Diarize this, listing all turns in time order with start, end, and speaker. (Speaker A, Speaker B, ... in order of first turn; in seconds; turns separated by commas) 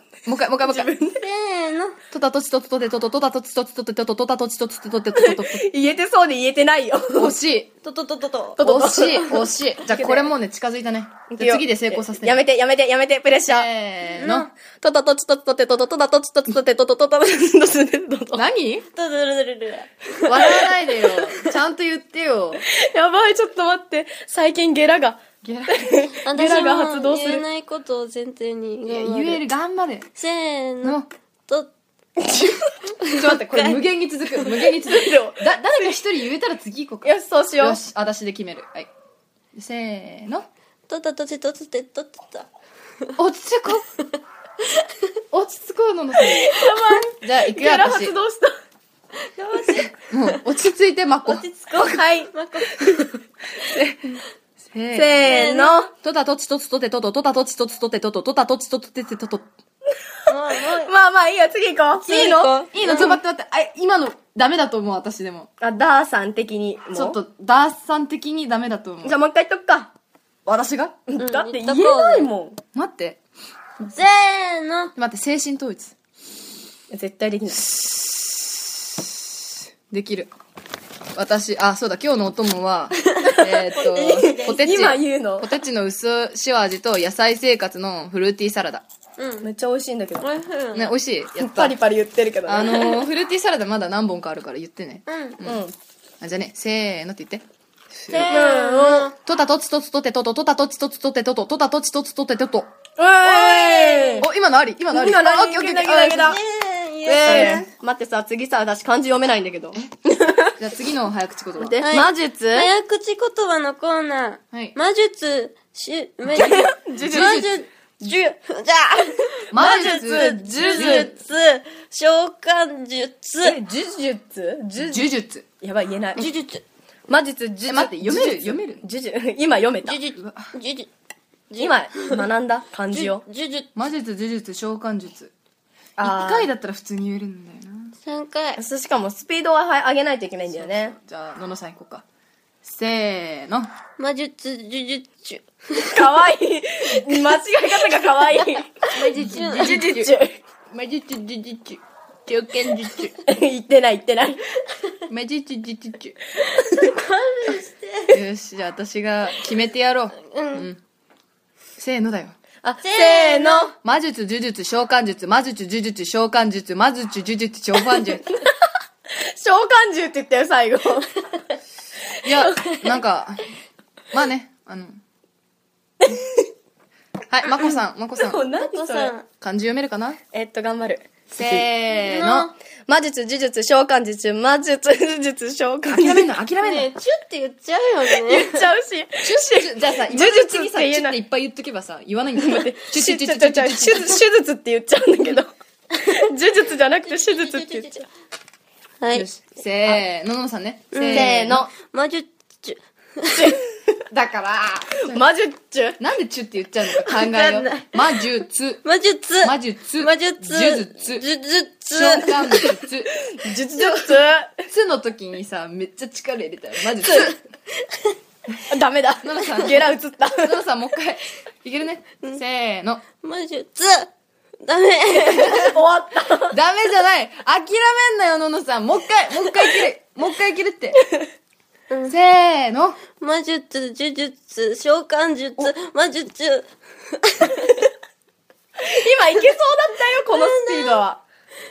Speaker A: 0.2-0.9, Speaker B: 0.6-1.2, Speaker C: 1.2-2.0, Speaker A: 2.1-5.6, Speaker B: 5.2-7.3, Speaker A: 7.1-7.7, Speaker C: 7.8-8.6, Speaker B: 8.6-10.3, Speaker A: 8.6-12.4, Speaker B: 11.3-13.7, Speaker A: 13.5-14.5, Speaker C: 14.2-14.5, Speaker B: 14.6-18.4, Speaker A: 18.3-18.9, Speaker C: 18.9-20.6, Speaker A: 20.3-22.6, Speaker B: 22.7-27.4, Speaker A: 25.4-25.9, Speaker C: 26.2-29.4, Speaker A: 28.9-30.1, Speaker C: 30.1-31.7, Speaker A: 30.8-31.1, Speaker B: 32.2-32.6, Speaker C: 33.1-33.7, Speaker A: 33.1-38.9, Speaker B: 34.4-36.0, Speaker B: 37.0-37.8, Speaker A: 39.5-40.5, Speaker C: 40.9-42.5, Speaker A: 43.2-43.9, Speaker A: 45.3-46.6, Speaker B: 46.3-48.5, Speaker A: 47.2-48.1, Speaker C: 49.3-49.9, Speaker A: 50.0-51.8, Speaker C: 51.3-53.1, Speaker B: 51.8-53.1, Speaker A: 53.6-59.5, Speaker B: 54.9-55.9, Speaker C: 55.2-55.8, Speaker C: 60.2-60.9, Speaker B: 60.6-62.7, Speaker C: 62.0-63.2, Speaker A: 62.7-65.5, Speaker B: 65.6-67.2, Speaker A: 66.9-69.2, Speaker B: 69.0-69.9, Speaker A: 70.5-71.0, Speaker B: 71.1-72.6, Speaker C: 71.2-72.3, Speaker A: 72.7-73.2, Speaker C: 73.9-74.9, Speaker A: 74.9-75.9, Speaker B: 76.9-77.7, Speaker A: 79.9-80.3, Speaker A: 81.1-88.8, Speaker B: 83.1-85.5, Speaker C: 83.8-84.6, Speaker C: 89.2-89.5, Speaker B: 89.4-90.3, Speaker C: 90.2-90.9, Speaker A: 90.7-91.8, Speaker B: 91.4-93.1, Speaker A: 92.4-95.6, Speaker C: 95.1-95.4, Speaker B: 95.4-95.8, Speaker A: 96.2-98.4, Speaker C: 98.1-99.1, Speaker B: 98.2-99.1, Speaker A: 99.1-102.7, Speaker B: 103.0-104.3, Speaker C: 103.2-104.2, Speaker A: 104.2-106.4, Speaker B: 104.9-106.4, Speaker C: 106.2-107.7, Speaker A: 107.0-107.7, Speaker B: 107.2-110.5, Speaker A: 110.6-111.8, Speaker B: 111.6-112.7, Speaker C: 111.8-123.6, Speaker B: 116.3-117.5, Speaker A: 116.3-117.6, Speaker B: 119.5-121.1, Speaker A: 119.5-121.1, Speaker B: 123.4-125.1, Speaker A: 124.8-125.5, Speaker B: 125.6-126.3, Speaker C: 126.2-126.6, Speaker B: 127.1-130.0, Speaker A: 127.6-128.8, Speaker C: 129.8-130.9, Speaker A: 130.1-130.5, Speaker C: 131.5-132.2, Speaker B: 131.6-133.2, Speaker C: 132.9-133.7, Speaker A: 133.7-135.3, Speaker A: 136.0-137.9, Speaker B: 136.0-136.5, Speaker C: 138.0-138.6, Speaker B: 138.6-140.9, Speaker A: 140.5-142.0, Speaker A: 142.6-143.7, Speaker C: 144.0-146.0, Speaker B: 145.8-148.8, Speaker A: 148.9-150.1, Speaker C: 149.1-149.9, Speaker B: 149.5-150.4, Speaker A: 150.7-153.2, Speaker B: 153.2-154.4, Speaker A: 155.1-156.2, Speaker C: 156.7-158.2, Speaker A: 158.1-160.8, Speaker C: 160.2-160.7, Speaker A: 161.8-162.3, Speaker B: 162.6-163.7, Speaker C: 162.8-163.7, Speaker A: 163.8-168.3, Speaker B: 169.3-171.2, Speaker A: 172.2-173.5, Speaker B: 172.3-172.9, Speaker A: 174.1-175.0, Speaker B: 176.0-176.4, Speaker A: 177.3-178.4, Speaker B: 178.2-179.1, Speaker C: 178.6-179.2, Speaker A: 179.4-180.2, Speaker B: 180.3-181.7, Speaker A: 181.3-182.5, Speaker C: 181.9-182.5, Speaker B: 182.9-186.3, Speaker A: 185.9-186.9, Speaker C: 186.6-188.7, Speaker B: 188.1-191.2, Speaker A: 189.2-194.2, Speaker B: 192.4-198.1, Speaker C: 197.0-198.0, Speaker C: 199.0-199.2, Speaker A: 199.1-201.6, Speaker C: 200.9-203.6, Speaker B: 201.1-201.7, Speaker B: 203.3-204.0, Speaker A: 204.1-205.2, Speaker B: 205.0-206.0, Speaker A: 206.0-208.8, Speaker C: 207.0-208.0, Speaker C: 208.8-212.8, Speaker A: 209.4-211.2, Speaker A: 211.9-214.1, Speaker B: 213.2-214.6, Speaker A: 214.7-217.4, Speaker C: 217.0-218.2, Speaker B: 218.6-220.6, Speaker A: 219.2-223.0, Speaker C: 223.2-224.1, Speaker C: 224.6-225.7, Speaker B: 225.3-226.6, Speaker A: 226.5-231.0, Speaker C: 231.9-232.2, Speaker A: 232.1-233.0, Speaker C: 233.2-237.8, Speaker B: 238.8-241.2, Speaker C: 240.2-241.0